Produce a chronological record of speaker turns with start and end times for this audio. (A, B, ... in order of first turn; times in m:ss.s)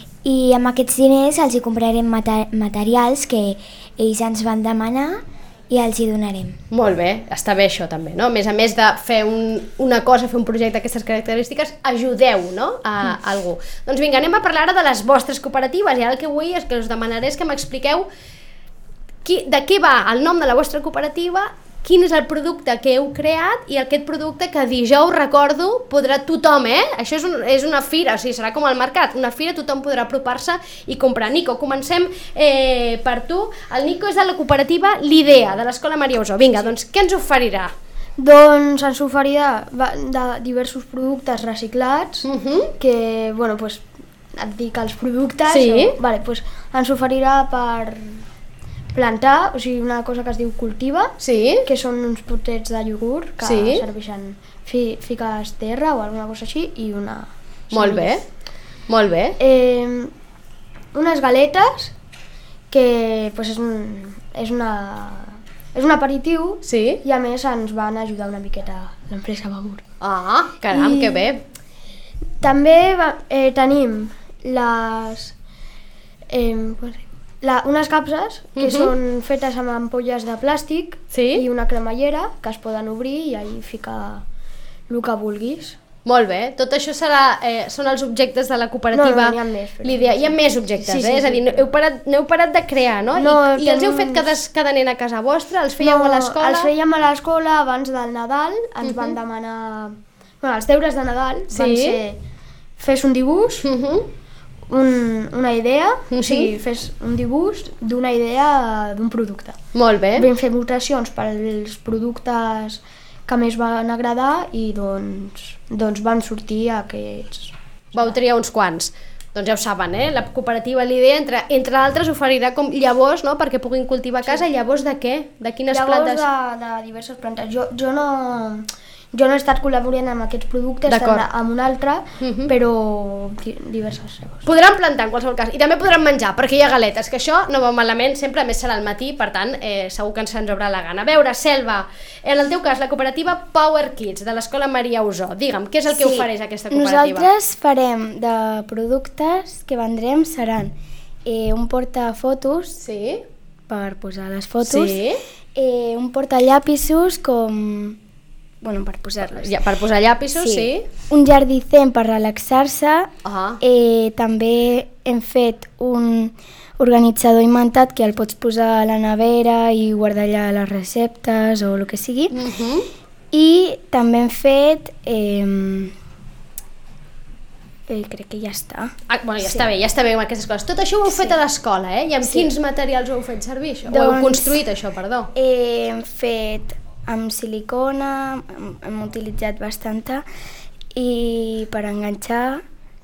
0:00.2-0:06.6 A
0:06.7-0:18.1 B
0:19.2-0:37.7 B
0:38.2-0:42.3 C
0:42.2-0:42.7 B
0:42.8-0:43.8 C
0:44.4-0:48.2 C
0:45.5-0:45.9 B
0:48.9-0:51.1 C
0:51.2-0:51.6 B
0:51.6-0:58.2 C
0:53.4-0:53.8 B
0:57.7-0:58.2 B
0:58.9-0:59.4 B
0:59.4-1:00.1 C
1:00.9-1:01.9 C
1:02.7-1:09.8 C
1:06.6-1:07.0 B
1:10.0-1:11.4 B
1:10.7-1:11.2 C
1:12.4-1:15.3 C
1:16.3-1:24.2 C
1:18.6-1:18.9 B
1:21.1-1:21.4 B
1:24.9-1:25.8 C
1:26.0-1:36.7 B
1:28.9-1:31.7 C
1:33.2-1:34.3 C
1:35.8-1:42.2 C
1:38.8-1:39.2 B
1:41.5-1:42.0 B
1:42.8-1:43.7 C
1:43.6-1:44.1 B
1:44.7-1:49.6 C
1:46.1-1:46.5 B
1:49.7-1:50.3 B
1:50.2-1:58.2 C
1:57.9-2:06.2 B
2:05.7-2:14.4 C
2:10.9-2:11.2 B
2:12.2-2:12.5 B
2:14.4-2:27.3 B
2:25.9-2:30.7 D
2:31.2-2:32.7 D
2:32.8-2:33.2 B
2:33.7-2:38.0 D
2:34.6-2:35.2 B
2:38.6-2:39.6 D
2:39.3-2:40.8 B
2:40.3-2:52.3 D
2:43.2-2:43.6 B
2:52.3-2:52.9 B
2:53.3-2:55.9 D
2:57.9-2:59.7 D
2:59.1-3:05.3 B
3:02.2-3:02.5 D
3:03.8-3:04.6 D
3:05.3-3:10.2 D
3:10.9-3:12.6 D